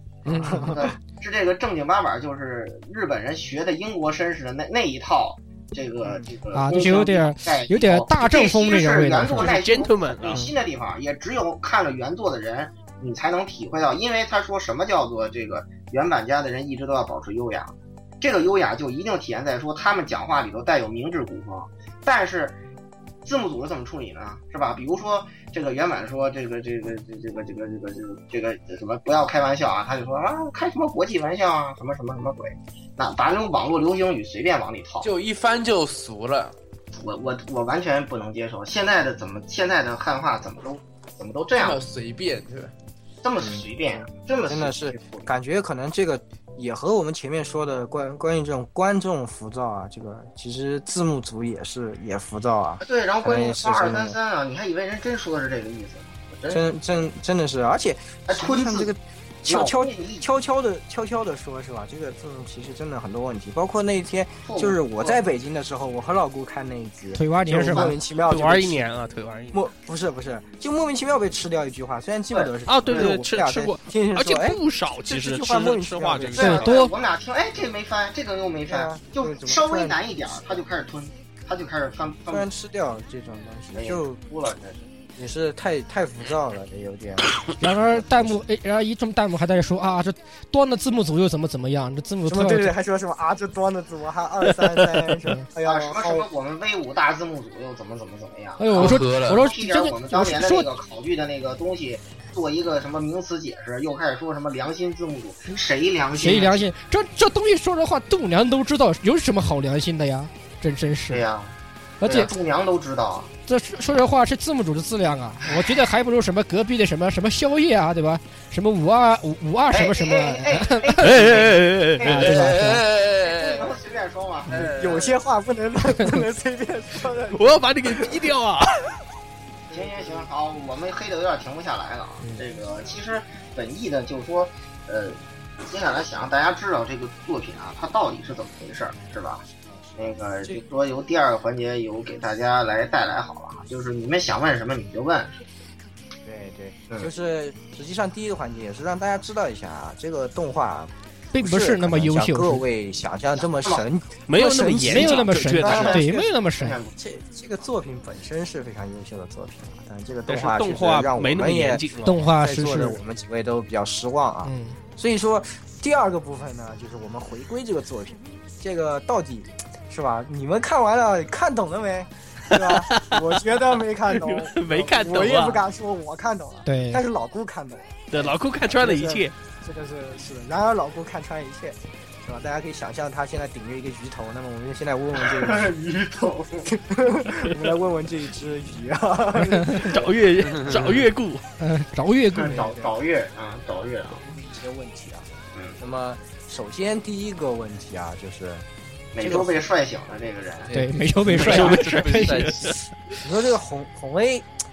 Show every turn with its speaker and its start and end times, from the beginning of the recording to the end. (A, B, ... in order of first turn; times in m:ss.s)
0:00.3-0:00.8 A
0:00.3-0:01.0 B
0:00.4-0:22.6 C
0:06.0-0:06.3 B
0:06.5-0:09.5 A
0:09.4-0:10.5 D
0:23.2-0:35.1 C
0:35.0-0:36.6 E
0:36.9-0:41.8 C
0:41.6-0:42.7 E
0:43.2-0:45.3 C
0:43.4-0:54.2 B
0:52.8-0:56.6 C
0:56.5-1:08.9 B
0:58.3-0:58.9 C
0:59.5-1:00.3 C
1:04.4-1:05.2 C
1:07.2-1:08.0 A
1:08.3-1:09.6 D
1:09.5-1:16.7 B
1:12.7-1:16.9 D
1:16.4-1:22.5 C
1:16.4-1:16.9 A
1:18.7-1:20.7 B
1:22.1-1:24.2 B
1:23.7-1:24.9 C
1:25.2-1:28.3 B
1:27.6-1:32.7 A
1:32.2-1:36.3 B
1:35.6-1:46.7 C
1:38.6-1:40.7 A
1:38.7-1:39.5 E
1:46.2-1:51.2 A
1:51.1-1:53.3 C
1:52.0-1:52.3 A
1:53.5-2:01.3 A
1:59.7-2:05.2 C
2:01.0-2:02.2 D
2:02.0-2:02.8 A
2:02.3-2:03.8 E
2:04.5-2:05.0 E
2:04.5-2:08.3 B
2:07.3-2:08.8 D
2:09.7-2:10.3 B
2:09.7-2:25.4 C
2:19.7-2:20.6 B
2:26.2-2:36.4 B
2:31.3-2:32.6 A
2:33.4-2:33.8 C
2:34.3-2:35.9 D
2:34.9-2:36.8 A
2:35.6-2:37.0 C
2:37.0-3:05.8 B
2:40.3-2:42.2 D
2:42.0-2:43.0 A
2:44.4-2:44.8 A
2:52.5-2:53.4 D
2:54.1-2:55.6 D
2:56.7-2:57.0 A
2:58.1-2:59.3 D
3:05.2-3:06.7 C
3:06.6-3:10.1 B
3:09.5-3:09.8 A
3:09.8-3:11.4 D
3:10.6-3:10.9 E
3:11.6-3:12.6 A
3:12.3-3:12.9 B
3:12.4-3:14.2 C
3:14.1-3:18.6 B
3:19.1-3:20.8 C
3:19.2-3:19.7 B
3:20.7-3:21.5 B
3:20.7-3:22.7 A
3:21.3-3:22.8 E
3:21.4-3:22.7 D
3:23.2-3:24.5 B